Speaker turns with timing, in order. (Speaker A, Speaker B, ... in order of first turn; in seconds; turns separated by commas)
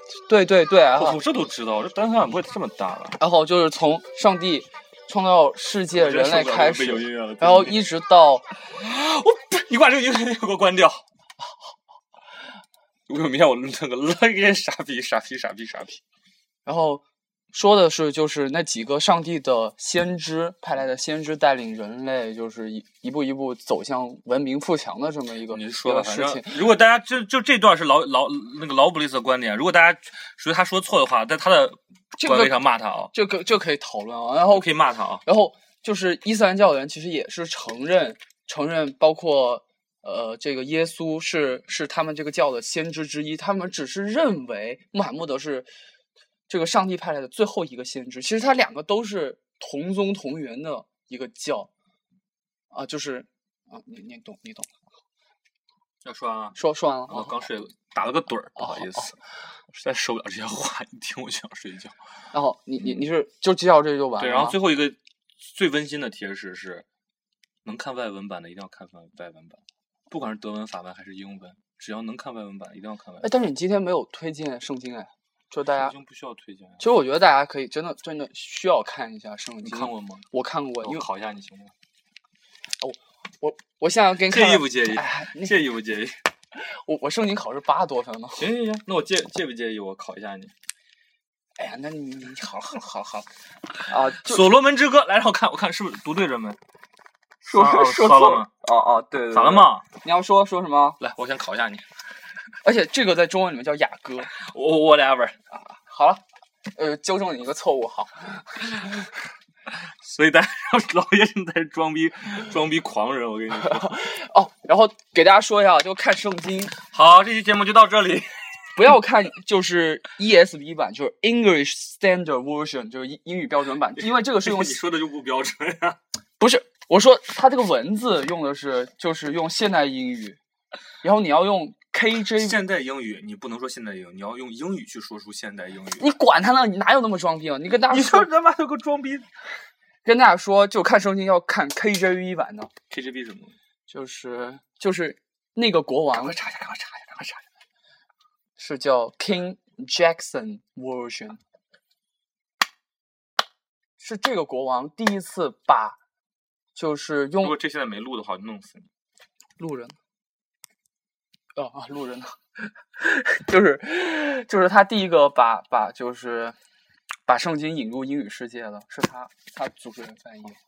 Speaker A: 0.2-1.2, Speaker B: 0.9-3.2, Speaker A: 3.2-8.5, Speaker B: 5.9-7.8, Speaker B: 8.7-11.0, Speaker B: 13.1-16.0, Speaker A: 16.6-26.7, Speaker B: 25.5-33.1, Speaker A: 32.1-32.6, Speaker A: 33.1-34.7, Speaker B: 34.5-35.2, Speaker A: 35.2-45.7, Speaker A: 46.5-51.7, Speaker A: 52.7-54.7, Speaker B: 56.0-59.2, Speaker A: 56.5-57.4, Speaker A: 58.6-59.1, Speaker B: 59.7-62.0, Speaker A: 62.3-64.6, Speaker B: 64.2-66.8, Speaker B: 67.6-73.3, Speaker A: 73.2-76.0, Speaker B: 75.7-76.8, Speaker A: 76.8-81.0, Speaker B: 79.6-80.3, Speaker B: 80.8-81.7, Speaker A: 82.8-85.5, Speaker B: 84.3-86.2, Speaker A: 86.5-88.5, Speaker B: 88.4-90.5, Speaker A: 91.6-93.3, Speaker A: 93.8-94.6, Speaker B: 94.1-96.6, Speaker B: 97.4-98.5, Speaker A: 97.5-101.0, Speaker B: 99.3-99.8, Speaker B: 101.0-101.8, Speaker A: 102.6-104.3, Speaker B: 104.3-105.3, Speaker A: 105.5-109.1, Speaker B: 109.7-114.0, Speaker A: 113.5-116.8, Speaker B: 116.8-118.3, Speaker A: 118.8-124.8, Speaker B: 124.0-126.0, Speaker A: 126.4-130.4, Speaker A: 131.0-132.6, Speaker B: 132.3-136.1, Speaker A: 136.0-138.3, Speaker B: 137.8-139.3, Speaker A: 140.0-142.7, Speaker B: 142.9-143.6, Speaker A: 143.9-146.4, Speaker B: 146.2-147.4, Speaker A: 148.6-151.4, Speaker A: 154.0-156.0, Speaker A: 156.7-157.6, Speaker B: 157.4-158.9, Speaker A: 159.6-159.9, Speaker A: 161.5-162.4, Speaker A: 162.9-166.6, Speaker A: 167.3-170.6